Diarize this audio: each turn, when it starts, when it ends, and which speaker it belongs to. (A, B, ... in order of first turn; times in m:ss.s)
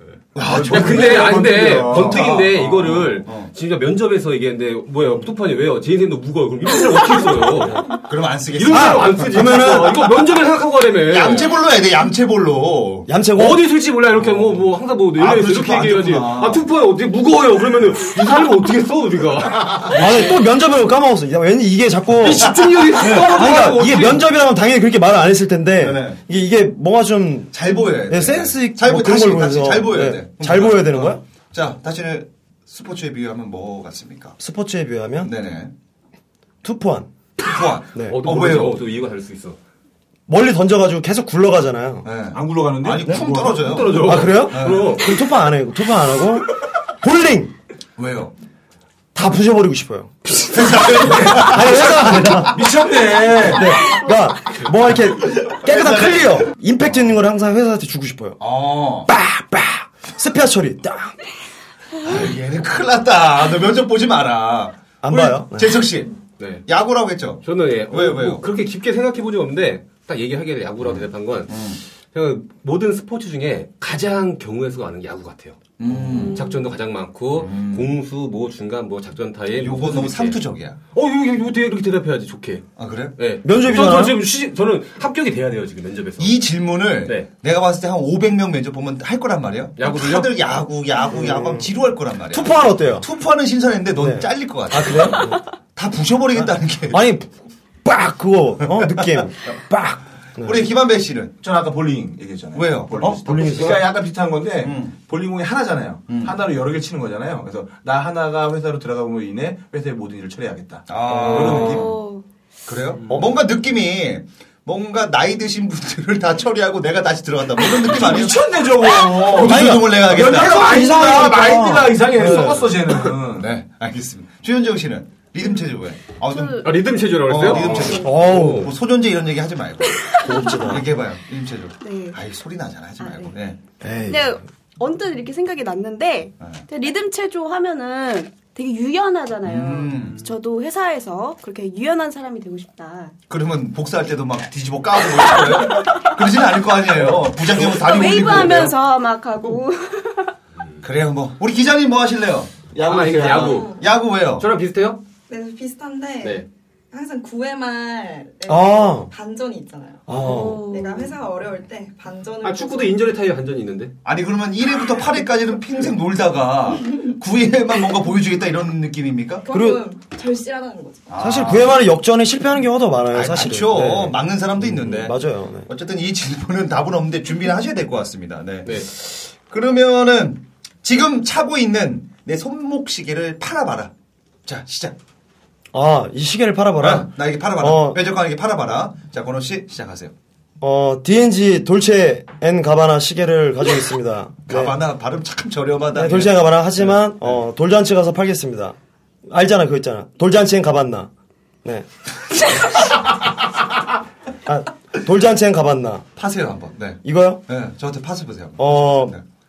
0:00.3-0:03.5 A
0:00.4-0:02.2 B
0:00.6-0:07.9 C
0:07.9-0:09.7 A
0:08.6-0:11.5 C
0:08.7-0:10.0 D
0:11.1-0:13.1 A
0:13.1-0:13.6 D
0:13.4-0:19.9 C
0:14.2-0:14.6 A
0:15.2-0:16.6 A
0:19.9-0:31.2 D
0:22.2-0:24.2 C
0:23.0-0:23.4 A
0:25.8-0:26.2 A
0:27.5-0:34.4 A
0:34.4-0:35.3 D
0:35.2-0:35.7 A
0:36.6-0:37.1 D
0:37.4-0:38.8 A
0:38.1-0:39.6 C
0:40.3-0:42.1 D
0:42.0-0:45.0 A
0:42.3-0:44.1 B
0:43.6-0:45.1 C
0:44.0-0:47.5 D
0:48.0-0:48.3 A
0:49.1-0:50.1 D
0:50.5-0:52.4 A
0:50.7-0:51.5 B
0:51.2-0:52.7 D
0:52.5-0:53.6 B
0:53.5-0:58.4 D
0:55.3-0:57.0 A
0:58.4-0:59.1 A
0:59.1-1:01.1 D
1:02.0-1:06.1 A
1:05.0-1:05.8 D
1:06.4-1:06.6 C
1:06.7-1:08.4 A
1:07.4-1:11.5 C
1:10.8-1:11.8 A
1:12.1-1:20.4 C
1:15.8-1:16.4 A
1:16.1-1:16.6 E
1:17.4-1:17.9 A
1:19.6-1:20.8 A
1:20.9-1:22.6 C
1:22.8-1:23.1 A
1:23.2-1:26.3 C
1:23.4-1:24.2 D
1:26.2-1:37.0 A
1:29.8-1:30.4 C
1:31.1-1:31.7 D
1:32.3-1:33.1 D
1:34.0-1:35.4 D
1:36.4-1:40.6 D
1:38.6-1:39.3 A
1:40.4-1:41.3 A
1:41.4-1:51.9 B
1:42.5-1:43.8 A
1:43.0-1:43.9 D
1:44.6-1:45.0 A
1:46.1-1:46.4 A
1:50.9-1:51.9 A
1:51.3-1:51.7 D
1:51.5-1:52.2 E
1:52.7-1:58.4 A
1:53.1-1:53.4 D
1:57.6-2:03.5 B
1:59.0-2:00.8 A
1:59.4-2:02.8 D
2:03.3-2:06.6 A
2:06.3-2:06.6 E
2:06.6-2:08.6 C
2:07.2-2:13.6 A
2:07.5-2:08.0 E
2:07.7-2:08.7 D
2:09.9-2:10.7 E
2:10.2-2:10.8 D
2:11.8-2:12.2 E
2:13.0-2:13.3 E
2:13.8-2:14.4 D
2:14.1-2:23.1 E
2:19.4-2:20.3 A
2:23.3-2:28.7 A
2:27.5-2:30.3 E
2:30.8-2:32.7 A
2:32.8-2:33.6 B
2:32.8-2:33.7 C
2:33.2-2:34.4 A
2:33.4-2:33.9 F
2:34.4-2:35.0 C
2:35.3-2:43.0 F
2:38.4-2:39.1 D
2:40.1-2:40.7 D
2:40.2-2:41.1 E
2:42.4-2:43.9 C
2:44.0-2:49.4 A
2:49.4-2:51.1 F
2:49.5-2:49.8 D
2:51.1-2:51.8 A
2:51.2-2:55.7 D
2:53.1-2:55.2 A
2:55.7-3:03.9 A
3:04.4-3:05.0 A
3:05.7-3:08.0 D
3:06.8-3:10.1 A
3:10.6-3:14.8 D
3:14.4-3:17.4 A
3:15.9-3:18.8 D
3:19.3-3:21.1 D
3:24.4-3:26.0 D
3:26.2-3:29.2 A
3:27.0-3:27.4 D
3:28.6-3:29.1 D